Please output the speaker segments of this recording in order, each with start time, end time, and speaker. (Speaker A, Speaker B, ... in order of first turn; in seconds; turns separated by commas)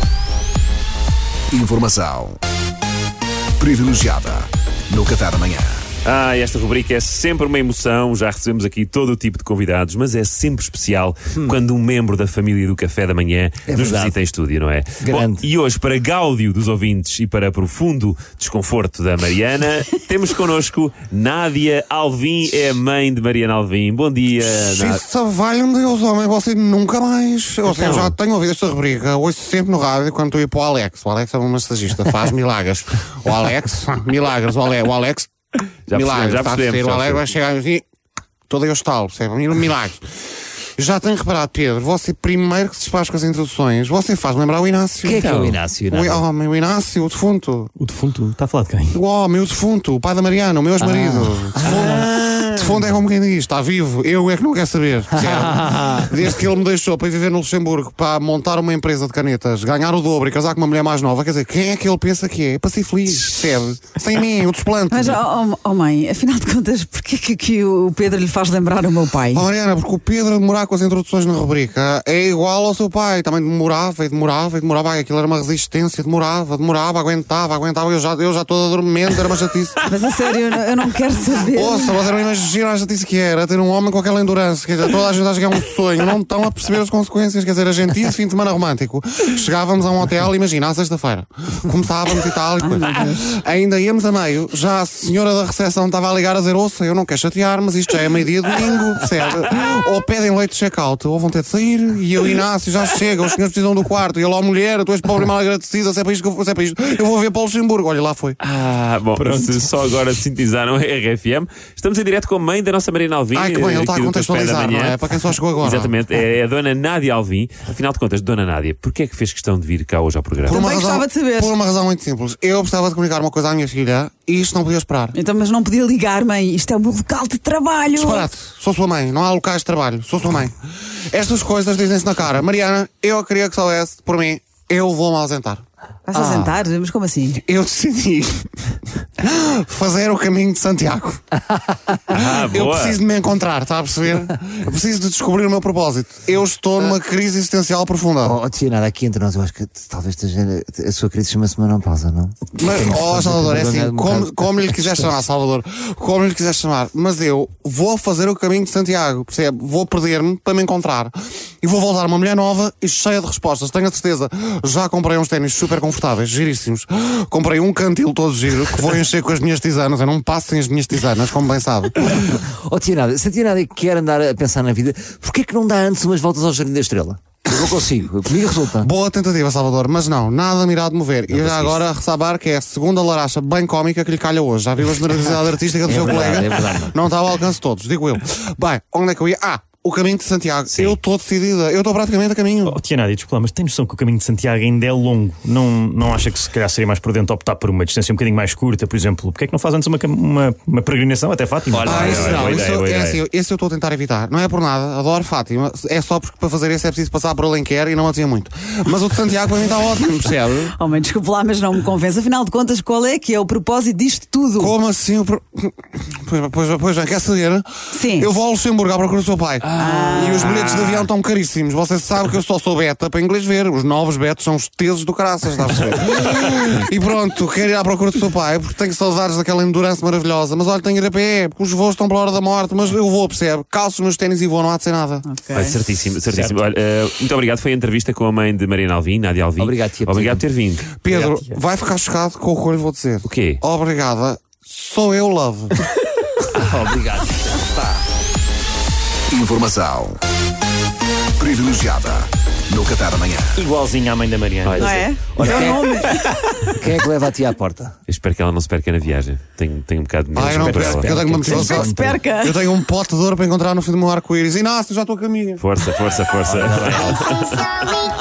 Speaker A: 1.5-2.4, Speaker A: 3.6-5.9, Speaker B: 6.0-25.0, Speaker C: 13.7-14.2, Speaker C: 15.0-15.5, Speaker D: 24.5-35.3, Speaker B: 27.6-28.2, Speaker B: 35.9-37.3, Speaker D: 35.9-37.8, Speaker D: 38.5-40.0, Speaker D: 40.8-47.7, Speaker C: 45.0-46.2, Speaker B: 45.2-45.5, Speaker E: 47.8-49.0, Speaker D: 48.9-65.2, Speaker C: 50.8-52.7, Speaker C: 55.2-56.1, Speaker F: 64.9-69.5, Speaker D: 69.3-79.8, Speaker F: 79.9-82.0, Speaker D: 81.5-108.4, Speaker F: 92.6-93.3, Speaker B: 108.4-120.6, Speaker E: 109.2-109.7, Speaker D: 113.3-116.0, Speaker D: 120.5-125.1, Speaker F: 120.5-121.5, Speaker F: 125.1-128.3, Speaker D: 127.9-130.5, Speaker D: 131.1-135.6, Speaker F: 136.1-137.4, Speaker D: 136.1-136.5, Speaker D: 137.4-138.4, Speaker D: 139.2-141.2, Speaker B: 142.1-143.0, Speaker D: 142.1-148.4, Speaker C: 148.2-155.1, Speaker D: 152.6-172.2, Speaker C: 172.1-178.9, Speaker D: 178.8-192.8, Speaker C: 181.3-181.8, Speaker C: 185.8-187.0, Speaker B: 190.7-191.0, Speaker E: 192.6-202.4, Speaker B: 201.7-203.2, Speaker D: 201.8-210.7, Speaker F: 210.8-214.7, Speaker D: 214.6-235.2, Speaker F: 217.9-218.3, Speaker F: 219.8-220.6, Speaker B: 219.8-221.1, Speaker F: 235.2-235.8, Speaker B: 235.5-240.9, Speaker C: 239.6-240.4, Speaker D: 240.9-245.8, Speaker C: 241.1-241.4, Speaker B: 243.2-243.6, Speaker C: 246.6-248.0, Speaker A: 249.3-250.2, Speaker A: 251.4-253.7, Speaker E: 253.6-254.9, Speaker B: 254.7-255.1, Speaker F: 254.8-256.8, Speaker C: 255.4-256.0, Speaker C: 256.8-258.0, Speaker B: 258.1-261.2, Speaker D: 260.4-261.9, Speaker C: 260.4-262.2, Speaker E: 260.6-260.9, Speaker F: 261.4-262.6, Speaker D: 262.4-265.6, Speaker B: 265.6-267.7, Speaker C: 266.5-267.2